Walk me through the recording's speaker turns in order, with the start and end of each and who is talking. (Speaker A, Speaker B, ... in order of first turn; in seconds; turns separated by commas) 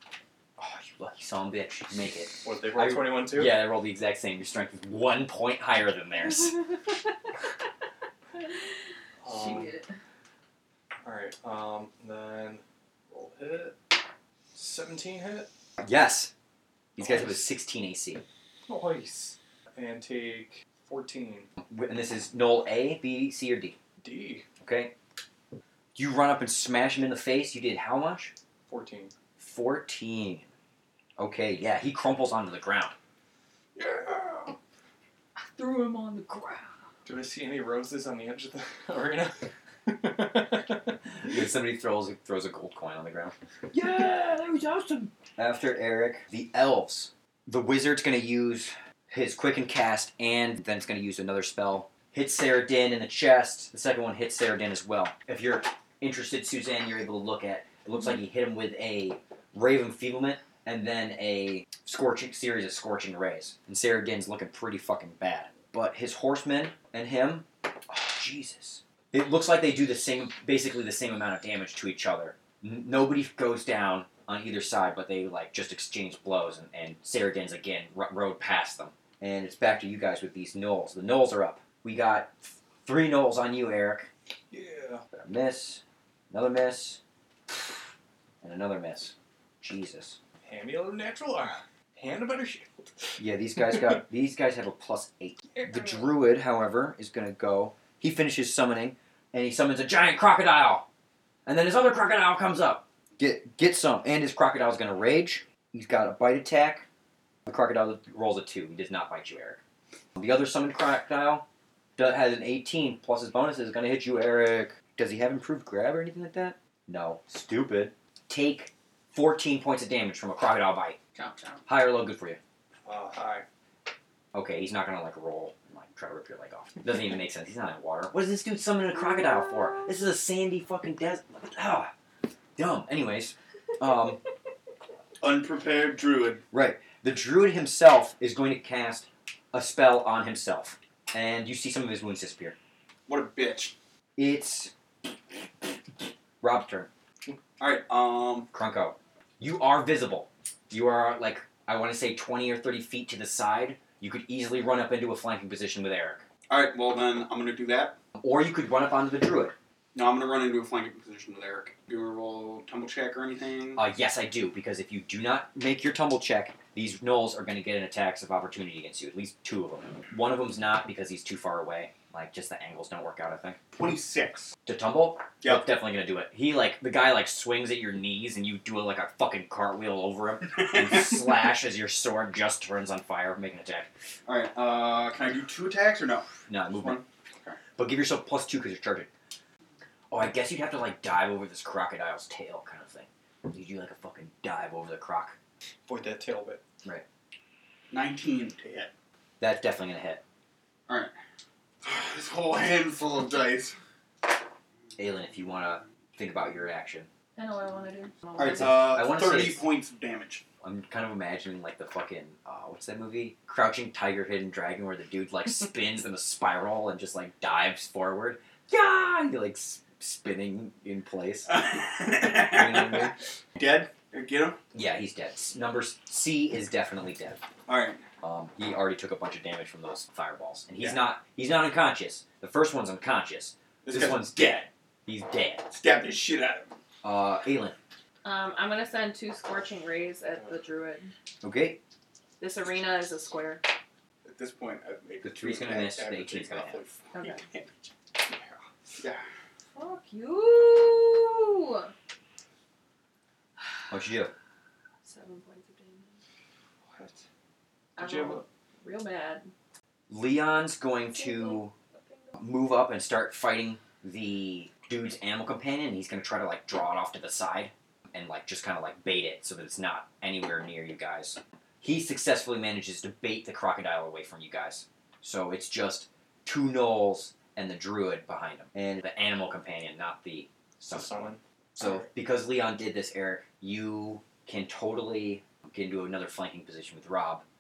Speaker A: 0.6-6.6, Speaker B: 2.4-3.6, Speaker B: 9.2-9.7, Speaker C: 9.2-9.9, Speaker B: 11.0-13.8, Speaker B: 14.5-15.5, Speaker A: 15.8-16.3, Speaker A: 17.0-18.2, Speaker B: 17.0-17.4, Speaker B: 18.7-21.5, Speaker A: 21.6-23.8, Speaker B: 24.0-24.5, Speaker A: 24.6-24.9, Speaker A: 25.9-28.3, Speaker B: 28.7-29.1, Speaker A: 29.4-30.5, Speaker A: 31.2-32.9, Speaker B: 33.8-34.6, Speaker C: 35.6-36.8, Speaker B: 37.0-41.0, Speaker A: 41.2-84.1, Speaker B: 84.5-85.0, Speaker A: 85.1-87.0, Speaker A: 88.4-90.2, Speaker B: 90.4-93.1, Speaker A: 93.2-100.9, Speaker C: 95.6-96.0, Speaker A: 101.5-106.9, Speaker A: 107.5-109.6, Speaker A: 110.2-111.5, Speaker A: 112.0-121.0, Speaker D: 121.2-121.6, Speaker A: 121.7-122.4, Speaker B: 122.8-123.5, Speaker A: 124.3-131.9, Speaker A: 132.6-134.2, Speaker D: 135.2-136.4, Speaker A: 136.5-142.6, Speaker D: 143.1-143.8, Speaker A: 144.2-144.7, Speaker A: 146.4-146.9, Speaker D: 147.6-148.5, Speaker A: 148.5-156.3, Speaker D: 156.5-158.0, Speaker A: 158.2-159.5, Speaker D: 159.9-163.8, Speaker A: 163.8-173.6, Speaker D: 173.7-174.5, Speaker A: 174.7-183.9, Speaker D: 175.4-175.7, Speaker D: 180.8-181.0, Speaker D: 184.3-187.6, Speaker A: 186.5-187.0, Speaker A: 187.8-189.1, Speaker A: 190.1-195.4, Speaker B: 195.9-196.6, Speaker D: 197.9-198.9, Speaker A: 199.4-200.2, Speaker D: 200.9-201.1, Speaker D: 201.8-203.8, Speaker A: 205.0-207.1, Speaker C: 207.4-208.8, Speaker D: 208.4-210.4, Speaker A: 208.5-209.7, Speaker A: 210.6-221.7, Speaker D: 221.5-224.6, Speaker A: 222.2-223.2, Speaker A: 224.7-227.4, Speaker D: 227.7-228.0, Speaker A: 228.2-235.7, Speaker D: 233.8-234.7, Speaker D: 235.7-236.8, Speaker A: 237.0-237.8, Speaker C: 238.2-241.1, Speaker A: 241.4-241.8, Speaker C: 242.4-243.6, Speaker D: 244.2-247.7, Speaker A: 245.2-246.8, Speaker C: 247.1-247.4, Speaker B: 248.2-248.7, Speaker C: 249.8-251.9, Speaker A: 253.9-254.3, Speaker C: 255.0-256.2, Speaker B: 256.9-257.2, Speaker C: 258.0-259.5, Speaker B: 258.0-258.5, Speaker A: 260.1-261.7, Speaker C: 261.1-262.4, Speaker A: 262.4-287.4, Speaker B: 280.9-281.4